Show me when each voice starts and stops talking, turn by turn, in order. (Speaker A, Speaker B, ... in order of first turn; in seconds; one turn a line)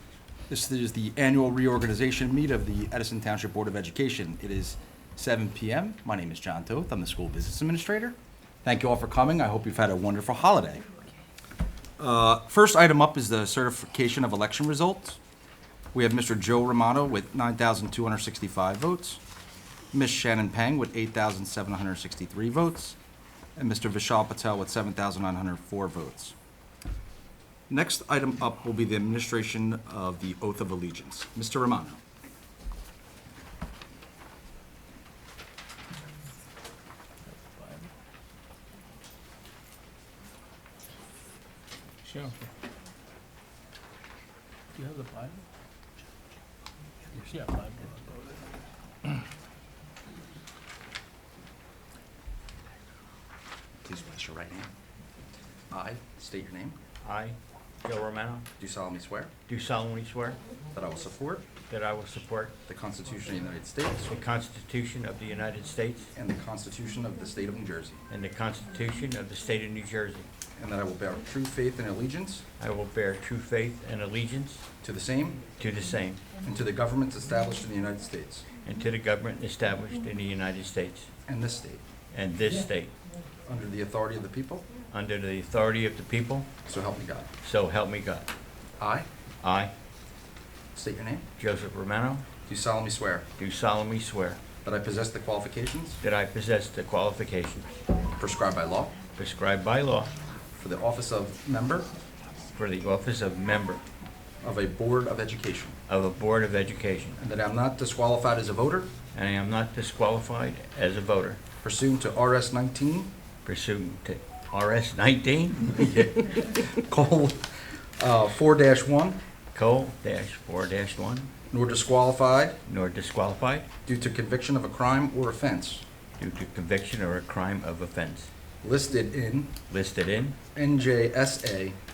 Speaker A: 0.5-10.8
Speaker A: 12.0-15.2
Speaker A: 15.9-19.2
Speaker A: 19.9-23.0
Speaker A: 23.6-26.3
Speaker A: 27.7-32.0
Speaker B: 37.4-37.9
Speaker B: 42.0-42.5
Speaker B: 44.7-45.4
Speaker B: 47.3-48.4
Speaker A: 53.8-54.7
Speaker A: 55.7-56.8
Speaker C: 57.0-58.5
Speaker A: 58.6-59.3
Speaker C: 59.5-60.4
Speaker A: 60.7-61.5
Speaker C: 61.7-62.5
Speaker A: 62.7-64.1
Speaker C: 64.1-66.1
Speaker A: 66.1-68.0
Speaker C: 68.1-70.3
Speaker A: 70.5-72.4
Speaker C: 72.6-74.6
Speaker A: 74.8-75.5
Speaker C: 75.6-76.2
Speaker A: 76.4-78.5
Speaker C: 78.6-81.1
Speaker A: 81.3-81.8
Speaker C: 82.1-82.9
Speaker A: 83.4-84.7
Speaker C: 84.9-86.5
Speaker A: 86.7-87.3
Speaker C: 87.4-88.3
Speaker A: 88.8-89.1
Speaker C: 89.4-89.7
Speaker A: 90.7-91.2
Speaker C: 91.4-92.2
Speaker A: 92.5-93.2
Speaker C: 93.4-94.4
Speaker A: 94.6-96.0
Speaker C: 96.0-97.7
Speaker A: 98.2-99.0
Speaker C: 99.2-100.1
Speaker A: 100.6-101.9
Speaker C: 102.5-103.8
Speaker A: 104.4-105.8
Speaker C: 105.9-107.2
Speaker A: 107.2-108.9
Speaker C: 109.1-111.4
Speaker A: 111.6-113.1
Speaker C: 113.4-115.8
Speaker A: 115.8-119.2
Speaker C: 119.5-121.3
Speaker A: 121.5-122.6
Speaker C: 122.7-123.7
Speaker A: 123.8-125.8
Speaker C: 126.2-128.3
Speaker A: 128.6-129.6
Speaker C: 129.7-130.4
Speaker A: 130.5-131.8